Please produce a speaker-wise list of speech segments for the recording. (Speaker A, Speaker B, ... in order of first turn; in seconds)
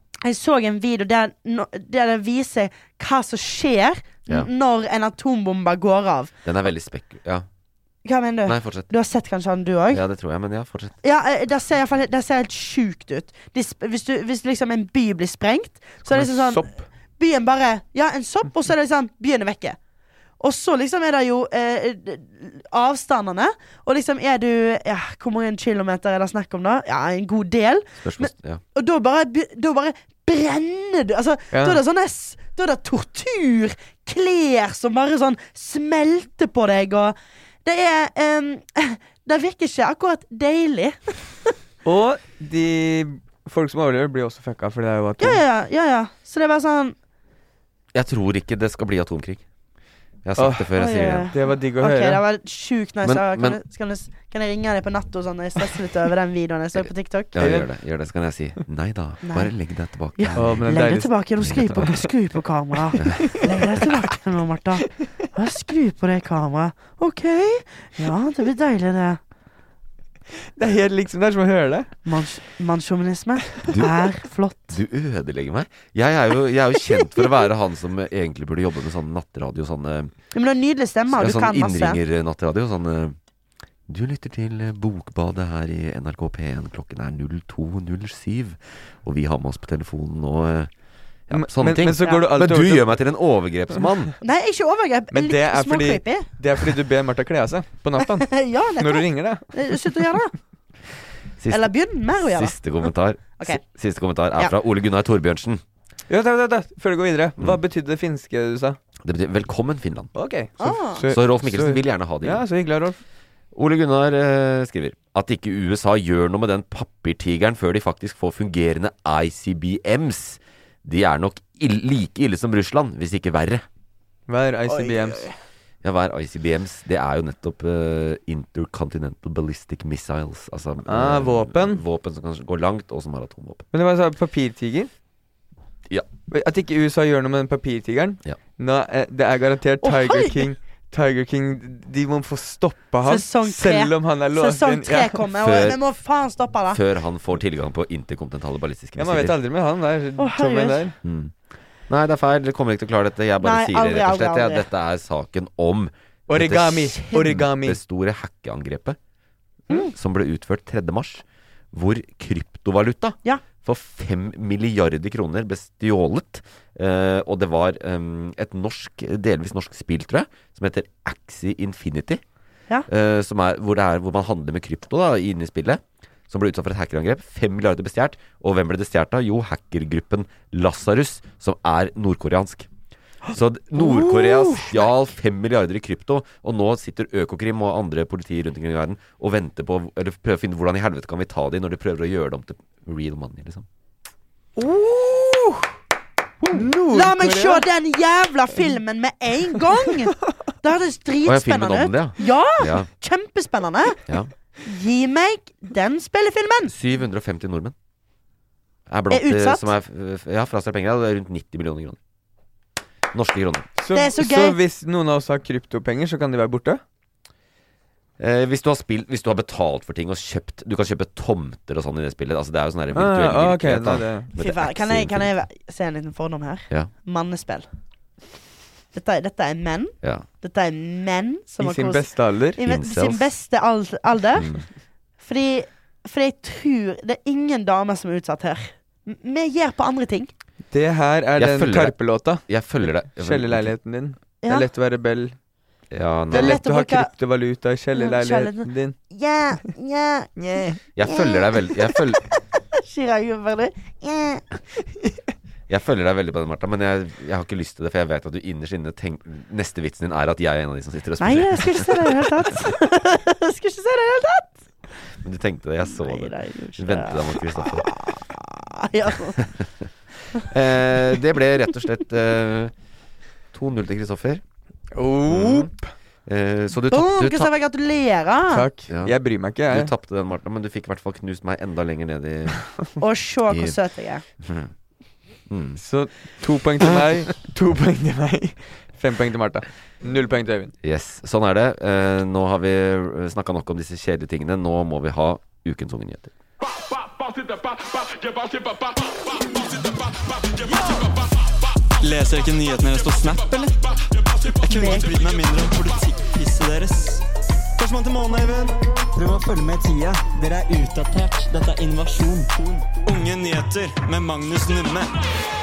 Speaker A: 0.2-6.3, 8.0-10.0, 11.0-16.7, 17.2-19.8, 20.4-41.5, 45.2-46.9, 50.8-57.3, 59.2-59.5, 60.1-69.2, 72.0-74.8, 80.3-82.0, 94.2-96.3, 98.2-100.3, 101.5-102.5, 110.6-111.0, 124.7-125.3, 139.8-140.4, 143.0-146.8, 150.2-150.8, 153.4-154.6, 183.8-184.7, 194.8-195.4, 196.5-204.0, 204.6-206.7, 209.1-209.7, 213.9-214.6, 224.3-227.7, 228.9-234.5, 235.2-240.3, 246.3-247.1, 247.9-251.9, 252.8-254.4, 261.2-264.6, 265.9-269.5, 276.9-278.6, 283.0-284.2, 304.6-305.1
Speaker B: 6.4-7.4, 8.4-8.9, 9.9-10.9, 28.0-28.6, 47.9-49.4, 50.2-51.3, 53.0-53.6, 57.3-60.7, 61.5-61.9, 63.0-63.4, 74.7-80.1, 81.1-83.2, 83.9-90.7, 91.3-94.1, 101.4-105.6, 109.0-110.1, 111.1-112.4, 113.5-123.6, 125.8-133.7, 145.4-145.8, 146.7-149.3, 151.0-151.3, 151.9-159.0, 159.7-172.2, 172.9-182.7, 183.3-193.7, 201.2-202.9, 206.7-207.7, 208.9-212.0, 213.1-213.7, 218.2-225.3, 232.6-233.3, 234.3-234.6, 241.3-243.7, 245.9-246.6, 250.9-252.2, 255.7-262.2, 265.2-267.9, 270.3-272.7, 273.5-274.4, 275.3-275.7, 276.2-277.5, 278.9-279.1, 279.7-282.9, 283.5-283.8, 284.4-284.7, 285.5-285.8, 290.8-296.3
Speaker C: 16.1-16.8, 31.5-31.8, 41.8-45.4, 50.4-50.8, 51.3-52.2, 57.4-57.7, 60.4-61.8, 70.5-71.9, 91.3-93.0, 95.1-100.0, 106.1-108.8, 110.1-113.0, 124.3-125.3, 130.8-131.8, 133.7-134.9, 136.3-145.2, 149.0-150.9, 156.3-157.8, 194.6-195.3, 196.5-197.6, 213.8-216.8, 222.9-224.3, 231.6-232.6, 240.7-245.3, 246.3-248.9, 250.4-250.8, 274.9-275.9, 278.5-279.9, 285.8-290.7
Speaker D: 300.7-301.1, 302.0-307.2, 307.8-315.1